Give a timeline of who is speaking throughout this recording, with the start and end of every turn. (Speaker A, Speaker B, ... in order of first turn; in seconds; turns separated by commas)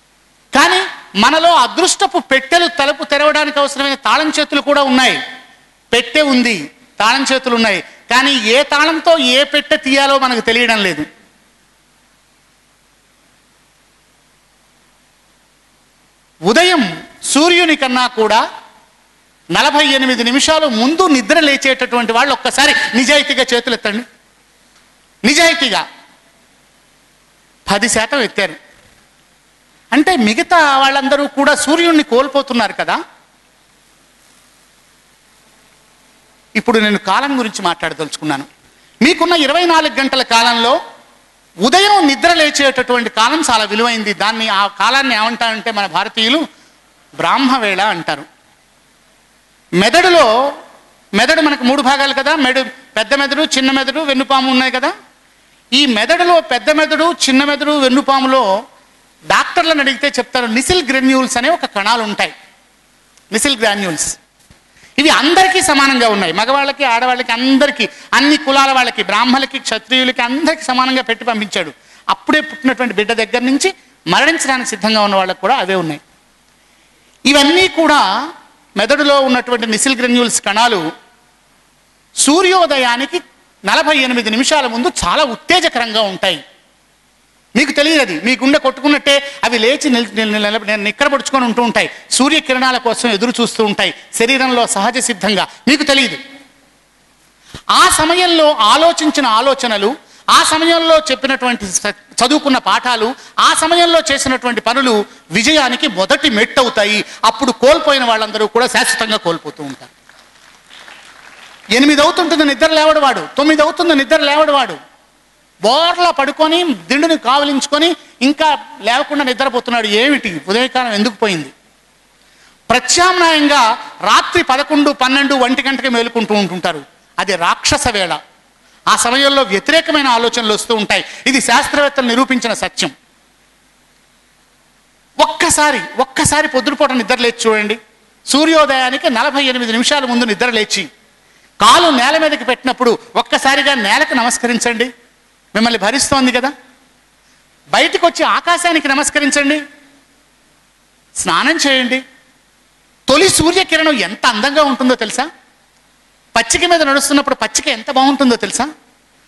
Speaker A: 0.5-5.2, Speaker A: 5.9-11.1, Speaker A: 16.5-18.4, Speaker A: 19.5-24.0, Speaker A: 25.2-25.8, Speaker A: 27.7-28.6, Speaker A: 29.9-33.0, Speaker A: 36.6-38.5, Speaker A: 39.0-40.8, Speaker A: 41.6-46.4, Speaker A: 47.2-48.2, Speaker A: 49.8-50.3, Speaker A: 51.2-54.9, Speaker A: 55.7-58.4, Speaker A: 59.3-62.3, Speaker A: 63.3-64.2, Speaker A: 65.0-76.0, Speaker A: 77.3-78.0, Speaker A: 78.8-80.8, Speaker A: 82.2-86.4, Speaker A: 87.5-96.2, Speaker A: 97.7-109.9, Speaker A: 111.8-114.8, Speaker A: 115.6-121.5, Speaker A: 122.7-128.2, Speaker A: 128.9-132.9, Speaker A: 135.2-137.8, Speaker A: 138.3-140.9, Speaker A: 141.6-144.9, Speaker A: 145.5-146.5, Speaker A: 147.7-149.6, Speaker A: 151.2-152.0, Speaker A: 153.1-155.3, Speaker A: 156.3-158.7